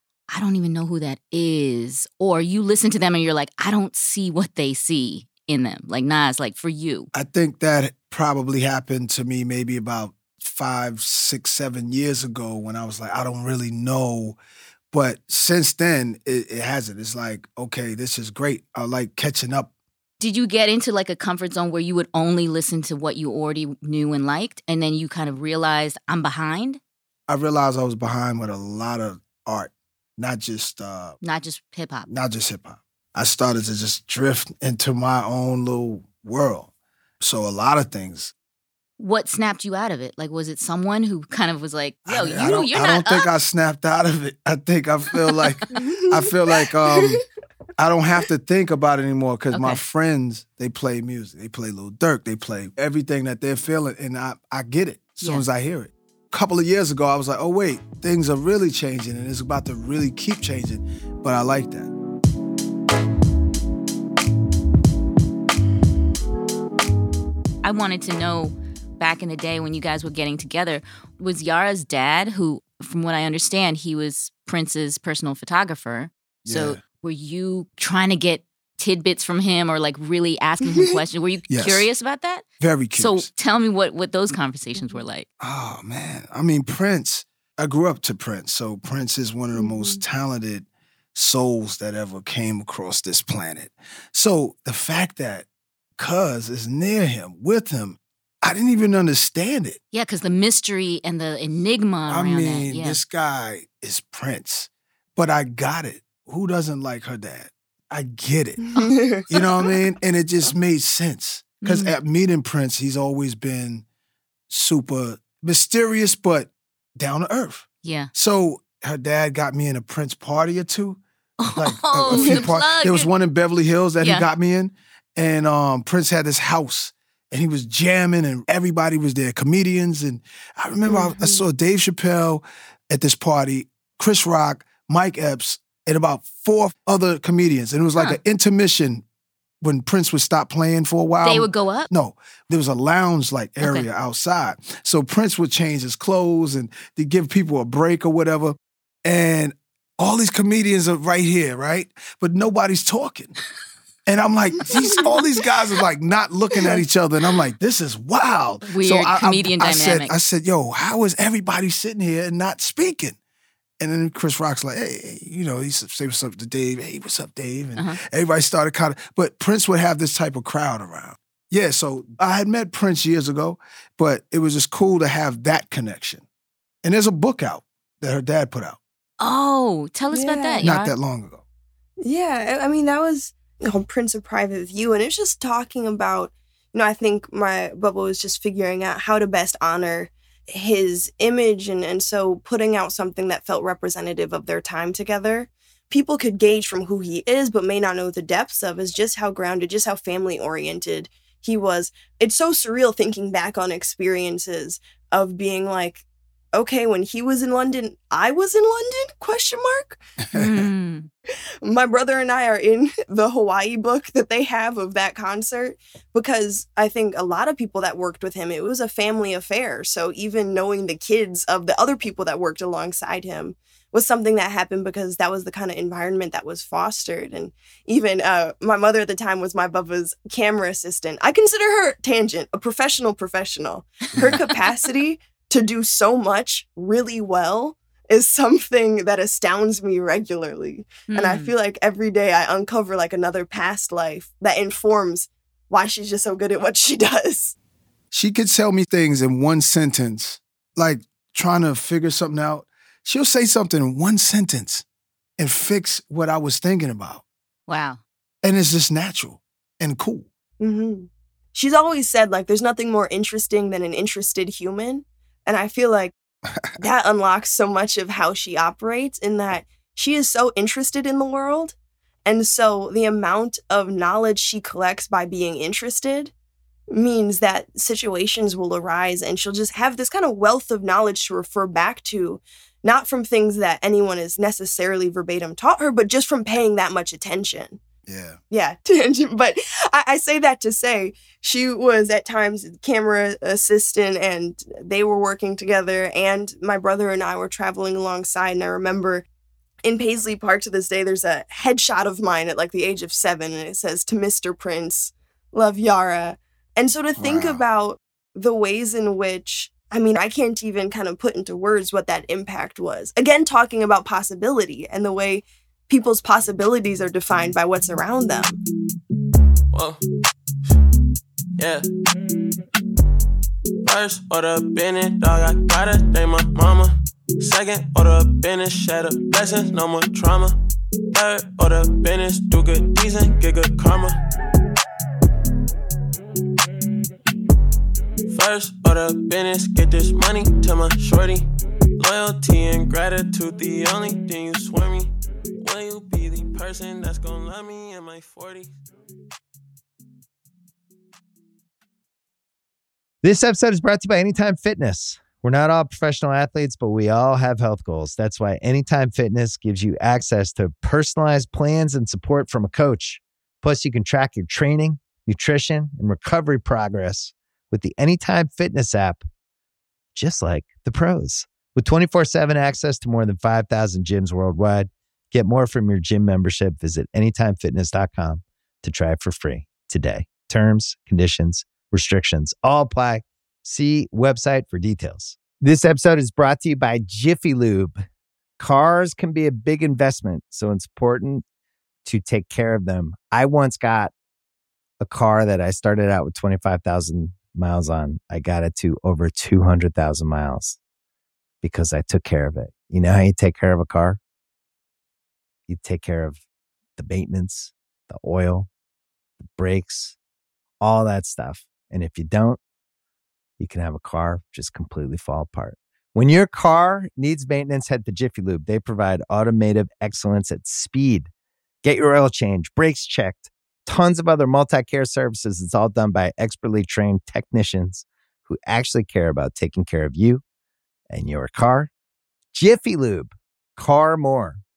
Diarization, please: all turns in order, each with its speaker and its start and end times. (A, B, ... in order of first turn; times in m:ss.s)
0:00.3-0:07.1 A
0:07.1-0:14.4 B
0:14.9-0:19.7 B
0:20.2-0:26.8 A
0:27.3-0:31.2 B
0:31.2-0:32.1 A
0:32.1-0:38.3 B
0:39.0-0:43.2 A
0:42.0-0:47.2 B
0:45.7-0:47.1 C
0:47.8-1:01.9 B
0:49.5-0:49.8 A
0:55.2-0:55.4 A
1:07.6-1:25.2 A
1:16.4-1:16.8 B
1:20.7-1:21.0 C
1:21.5-1:21.9 B
1:22.6-1:23.3 B
1:24.8-1:25.0 C
1:25.4-1:35.4 B
1:29.5-1:30.0 C
1:36.0-1:39.8 B
1:39.9-1:43.0 A
1:42.1-1:48.6 B
1:48.6-1:49.3 C
1:49.3-1:53.8 B
1:51.6-1:51.9 A
1:54.5-2:01.0 B
1:57.8-1:58.1 A
2:01.4-2:03.1 A
2:01.5-2:19.0 B
2:02.1-2:02.4 C
2:04.0-2:04.3 A
2:10.9-2:11.4 C
2:19.6-2:33.4 B
2:21.2-2:21.9 A
2:23.6-2:23.9 A
2:34.1-2:43.2 B
2:34.7-2:35.0 C
2:34.7-2:35.0 A
2:38.7-2:40.1 A
2:43.8-2:56.2 B
2:56.8-2:58.8 B
2:59.2-3:00.9 A
3:00.1-3:00.6 C
3:00.6-3:01.4 B
3:02.0-3:30.0 C
3:30.3-3:30.7 B
3:30.3-3:31.1 A
3:31.6-4:07.5 C
4:01.1-4:01.5 A
4:08.1-4:14.8 B
4:15.4-4:17.2 B
4:17.7-4:18.0 A
4:18.4-4:20.3 B
4:20.6-4:26.1 C
4:26.8-4:36.3 C
4:36.9-4:47.8 C
4:48.1-4:48.4 B
4:48.5-4:59.2 C
4:59.8-5:18.6 C
5:07.2-5:07.6 B
5:19.7-5:20.0 D
5:21.6-5:21.8 D
5:23.8-5:30.6 D
5:31.1-5:34.2 D
5:38.3-5:48.8 D
5:53.2-6:09.2 E
6:10.1-6:28.0 E
6:28.6-6:31.4 E
6:32.0-6:34.1 E
6:35.0-6:40.8 E
6:41.6-6:44.2 E
6:45.7-6:46.4 E
6:47.0-6:48.7 E
6:49.4-6:50.2 E
6:50.8-6:52.6 E
6:53.6-7:01.3 E
7:01.8-7:10.4 E
7:11.1-7:11.9 E
7:12.5-7:14.6 E